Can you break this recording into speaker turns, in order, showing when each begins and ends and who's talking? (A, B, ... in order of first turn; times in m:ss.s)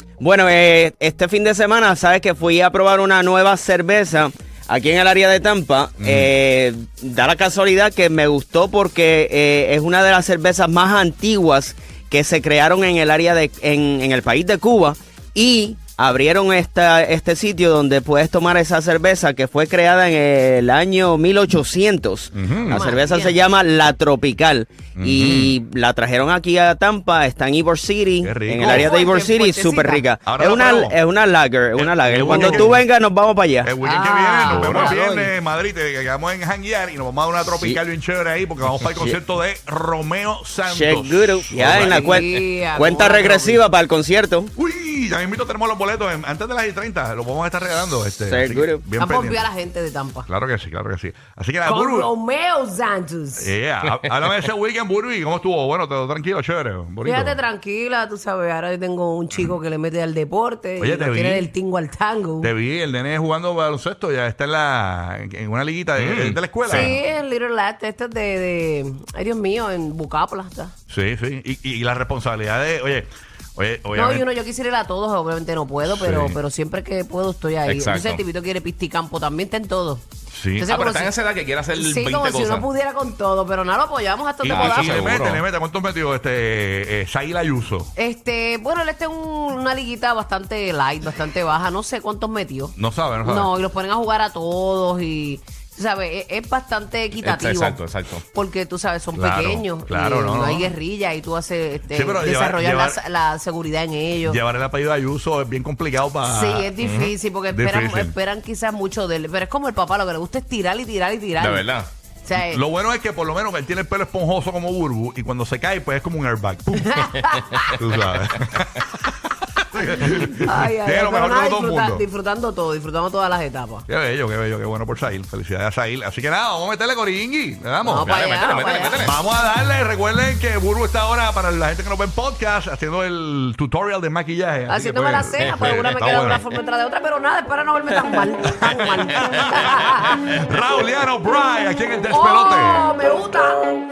0:00.2-0:33.7 A
0:06.0-0:06.3 B
0:22.3-0:22.9 B
0:22.6-0:23.4 C
0:25.0-0:25.6 B
0:28.2-0:28.9 B
0:28.6-0:30.0 C
0:30.2-0:31.0 B
0:31.7-0:32.8 B
0:32.3-0:32.6 C
0:33.6-0:42.2 B
0:33.8-0:35.3 C
0:34.5-0:34.9 D
0:37.5-0:37.8 A
0:38.9-0:39.2 A
0:40.7-0:44.5 A
0:41.6-0:43.6 C
0:44.5-0:49.5 B
0:48.3-0:48.8 A
0:49.0-0:50.3 C
0:50.2-0:52.1 B
0:51.6-0:53.5 C
0:53.4-0:57.4 B
0:53.9-0:54.4 D
0:57.0-1:02.5 C
1:00.8-1:01.5 B
1:02.4-1:07.0 B
1:06.0-1:06.9 D
1:06.7-1:10.7 C
1:10.9-1:14.2 B
1:13.9-1:20.0 C
1:15.8-1:16.4 B
1:17.6-1:18.2 D
1:20.3-1:20.7 B
1:20.6-1:21.2 C
1:20.7-1:22.7 D
1:21.7-1:25.3 C
1:24.4-1:27.9 B
1:24.5-1:25.4 D
1:28.0-1:44.4 C
1:32.8-1:33.5 B
1:37.2-1:38.2 D
1:39.1-1:40.7 B
1:41.9-1:43.0 B
1:44.2-1:46.7 B
1:46.2-1:51.7 C
1:46.8-1:47.1 D
1:47.5-1:48.1 B
1:51.4-1:51.9 D
1:52.2-1:52.6 C
1:52.3-1:57.0 B
1:56.8-1:57.8 C
1:57.7-1:58.9 B
1:59.5-2:02.0 B
2:00.1-2:03.8 C
2:03.9-2:08.2 B
2:07.8-2:09.2 C
2:08.1-2:09.2 D
2:09.0-2:16.4 B
2:14.7-2:20.2 C
2:15.4-2:16.4 D
2:17.9-2:18.7 D
2:18.5-2:23.0 B
2:19.2-2:19.6 D
2:22.1-2:23.8 C